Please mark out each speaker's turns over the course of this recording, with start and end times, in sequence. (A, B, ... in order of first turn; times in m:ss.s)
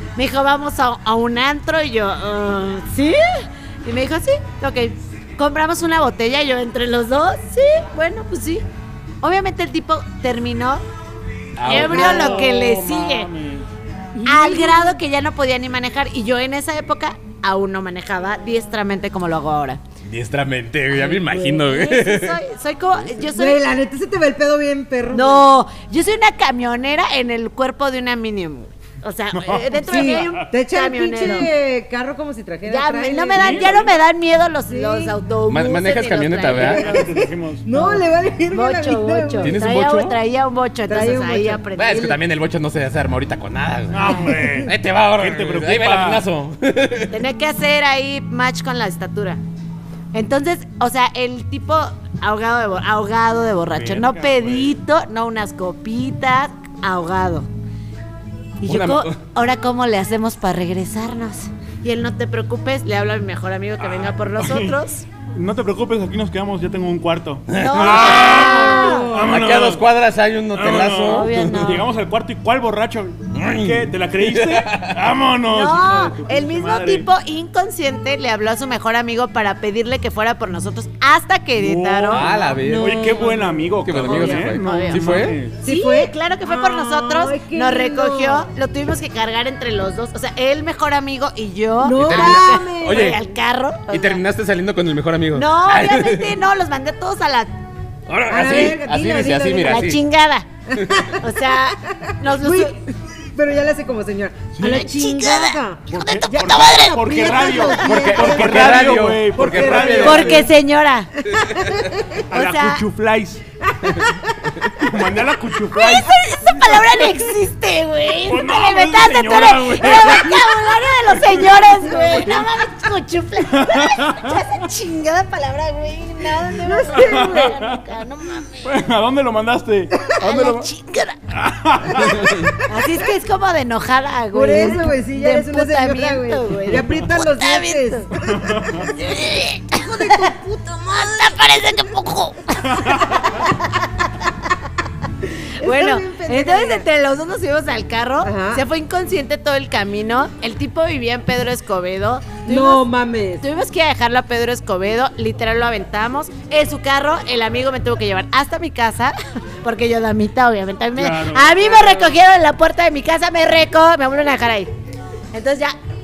0:00.2-0:08.6 A
0:09.2-0:10.8 A
0:11.6-0:12.4 B
0:11.6-0:13.3 A
0:11.6-0:13.7 C
0:12.1-0:12.5 D
0:14.2-0:15.0 D
0:14.2-0:19.8 A
0:20.0-0:22.4 B
0:21.0-0:21.6 D
0:21.6-0:23.6 A
0:23.3-0:25.5 D
0:25.1-0:31.5 A
0:29.3-0:30.4 C
0:29.8-0:34.0 D
0:32.7-0:37.1 A
0:33.3-0:33.9 C
0:34.7-0:35.2 D
0:35.5-0:37.0 B
0:36.5-0:39.6 D
0:36.6-0:37.7 C
0:37.7-0:42.2 A
0:39.4-0:40.2 B
0:40.9-0:41.6 D
0:41.8-0:47.2 B
0:43.9-0:46.2 C
0:47.1-0:49.4 A
0:50.1-0:57.5 A
0:53.7-0:54.8 C
0:58.6-1:05.1 A
0:58.6-0:59.2 B
1:03.8-1:04.8 C
1:05.4-1:09.8 C
1:07.5-1:08.5 B
1:07.5-1:09.1 A
1:08.3-1:09.2 D
1:09.1-1:11.8 B
1:10.5-1:17.1 C
1:11.0-1:11.9 A
1:13.3-1:15.0 B
1:15.5-1:22.3 A
1:21.6-1:25.6 C
1:22.1-1:23.2 B
1:22.3-1:24.5 D
1:23.8-1:25.4 B
1:24.5-1:25.0 A
1:25.6-1:28.5 D
1:25.6-1:34.2 A
1:31.8-1:33.2 D
1:32.0-1:33.2 B
1:33.9-1:36.4 B
1:35.3-1:37.6 A
1:38.1-1:40.0 B
1:38.3-1:39.9 D
1:39.6-1:40.5 A
1:40.7-1:41.3 D
1:40.8-1:41.1 B
1:41.1-1:42.8 A
1:41.9-1:50.5 D
1:44.6-1:44.9 C
1:44.6-1:47.8 A
1:45.9-1:50.5 C
1:47.8-1:50.4 B
1:50.0-1:51.2 A
1:51.2-1:52.2 D
1:51.3-1:51.9 B
1:52.3-1:52.8 A
1:52.3-1:53.4 C
1:53.6-1:54.7 D
1:54.8-1:56.1 C
1:55.7-2:08.7 A
1:58.3-2:01.6 C
2:01.5-2:02.3 D
2:02.2-2:02.5 C
2:03.5-2:04.5 C
2:06.6-2:07.6 D
2:06.9-2:07.8 C
2:08.6-2:10.7 C
2:10.2-2:11.2 A
2:11.3-2:12.5 C
2:12.0-2:12.5 B
2:12.6-2:18.1 A
2:14.3-2:18.9 D
2:18.2-2:18.9 C
2:19.0-2:24.1 A
2:19.8-2:20.9 D
2:22.7-2:23.3 C
2:25.6-2:26.8 D
2:25.6-2:32.8 A
2:28.2-2:28.6 D
2:32.5-2:33.5 D
2:33.4-2:44.7 A
2:40.9-2:42.2 C
2:45.3-2:45.8 A